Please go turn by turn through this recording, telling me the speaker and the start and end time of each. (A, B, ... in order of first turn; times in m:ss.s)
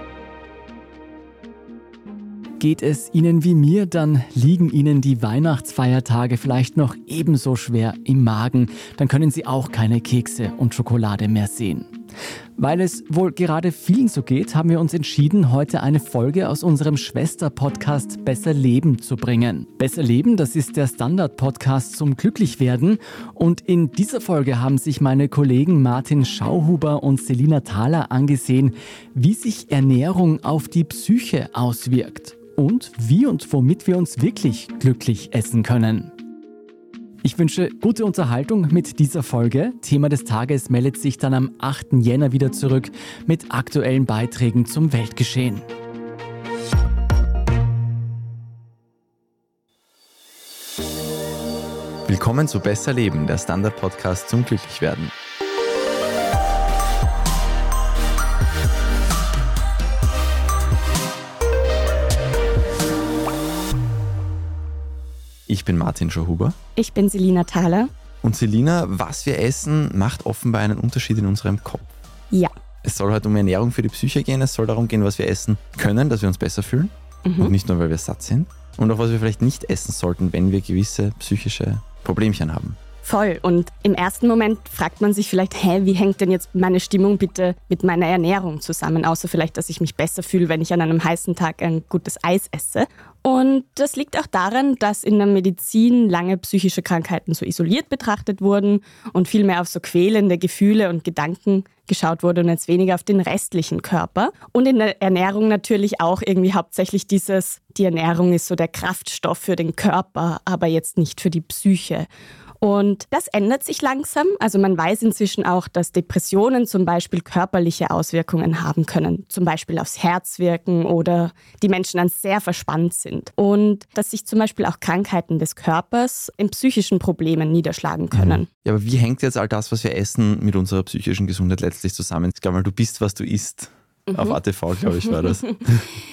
0:02.6-0:11.9 A
0:12.6-0:36.1 A
0:37.2-0:45.6 A
0:52.0-0:55.1 B
1:05.5-1:06.6 B
1:06.8-1:07.9 C
1:08.2-1:11.9 B
1:12.8-1:22.8 B
1:17.2-1:17.5 C
1:23.0-1:52.1 C
1:52.6-2:08.5 C
2:08.1-2:15.8 B
2:14.1-2:14.4 C